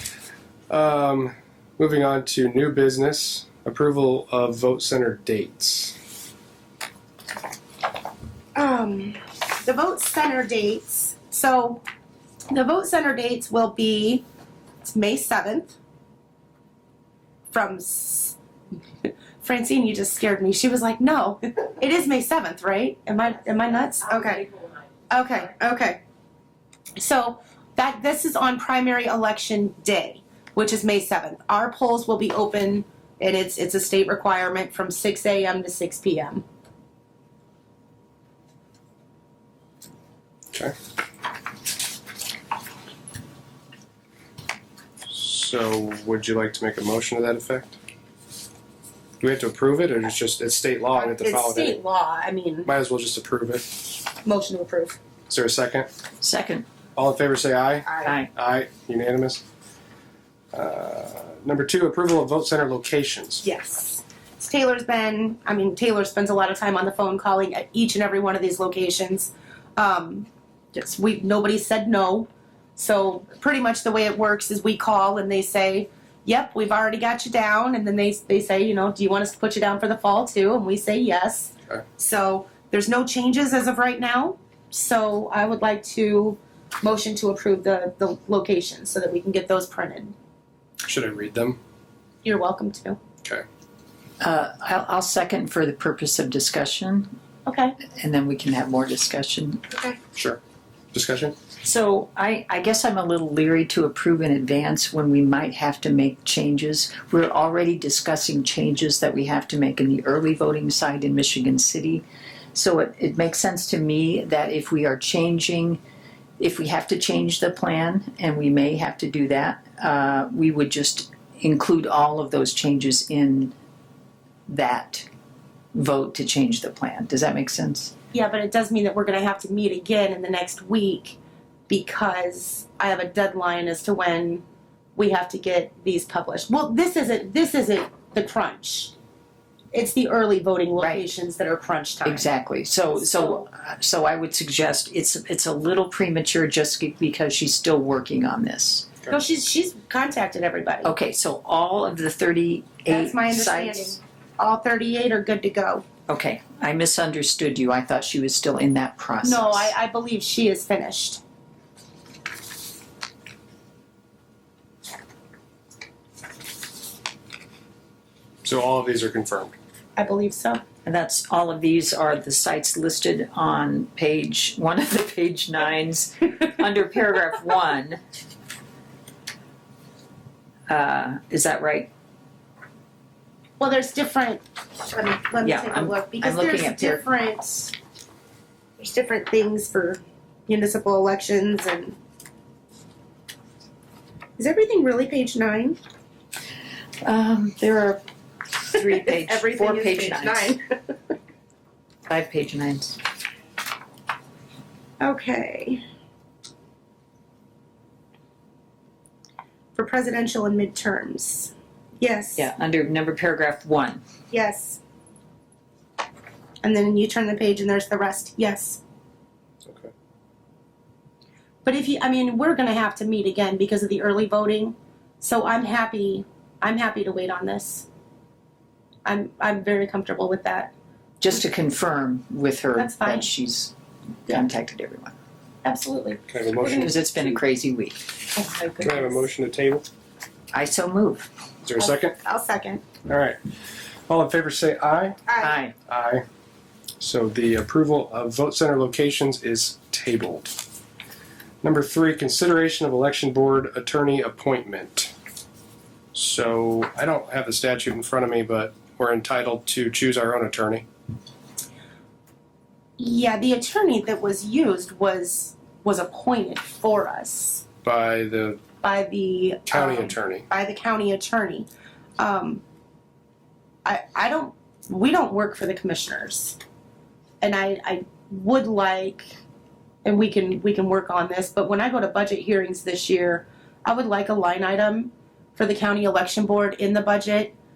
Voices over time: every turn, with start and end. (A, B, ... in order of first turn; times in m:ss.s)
0:00.7-0:06.0 A
0:08.5-0:11.8 B
0:12.5-0:14.2 B
0:14.8-0:15.8 B
0:17.5-0:18.4 B
0:19.0-0:24.5 B
0:25.1-0:26.0 B
0:27.0-0:36.4 B
0:45.1-0:47.8 A
0:49.2-0:51.8 A
0:50.9-0:52.7 B
0:52.6-0:53.9 A
0:54.2-0:55.0 B
0:55.3-0:55.9 A
0:56.2-0:56.6 C
0:57.0-0:59.4 A
0:57.8-0:58.1 B
0:58.0-0:58.3 C
1:00.5-1:03.4 A
1:03.4-1:30.1 B
1:30.8-1:31.6 A
1:32.2-1:33.0 B
1:34.2-1:37.1 C
1:37.4-1:37.8 B
1:37.9-1:39.6 C
1:39.7-1:40.0 B
1:40.9-1:41.3 A
1:41.6-1:55.8 C
1:56.4-2:03.5 C
2:04.5-2:05.1 C
2:05.7-2:07.9 C
2:08.1-2:11.2 B
2:11.7-2:14.4 B
2:15.0-2:18.9 B
2:19.7-2:22.3 B
2:20.8-2:21.0 C
2:22.0-2:28.9 C
2:22.9-2:23.4 B
2:29.1-2:30.9 B
2:30.8-2:34.0 C
2:32.9-2:35.8 B
2:36.1-2:39.7 C
2:39.2-2:41.2 B
2:48.4-2:49.5 A
2:50.0-2:50.6 B
2:50.8-2:58.0 C
3:00.7-3:01.9 C
3:03.6-3:07.7 B
3:05.4-3:07.0 C
3:08.8-3:12.0 B
3:14.4-3:15.8 B
3:17.0-3:18.0 C
3:18.6-3:20.6 C
3:18.8-3:20.6 B
3:22.1-3:23.0 C
3:25.0-3:25.8 B
3:29.7-3:32.5 B
3:32.4-3:34.0 C
3:34.3-3:34.8 B
3:36.6-3:38.8 B
3:39.6-3:39.9 A
3:41.6-3:47.8 B
3:49.0-3:50.7 B
3:51.2-3:53.7 C
3:52.7-3:53.3 B
3:54.2-3:55.1 C
3:55.6-3:57.0 B
3:56.3-3:57.0 A
3:56.8-3:58.0 C
3:58.3-3:59.3 B
3:58.8-3:59.8 A
4:00.5-4:01.3 C
4:01.6-4:02.1 A
4:01.8-4:02.8 B
4:03.0-4:03.4 A
4:04.1-4:05.2 A
4:05.3-4:05.6 B
4:05.4-4:05.7 C
4:05.9-4:06.2 A
4:07.0-4:10.5 A
4:11.6-4:15.1 A
4:16.1-4:20.8 A
4:23.0-4:27.6 B
4:27.8-4:28.6 A
4:28.8-4:31.7 B
4:29.7-4:30.4 A
4:32.2-4:32.6 B
4:33.8-4:36.6 B
4:37.4-4:39.4 B
4:40.0-4:47.5 B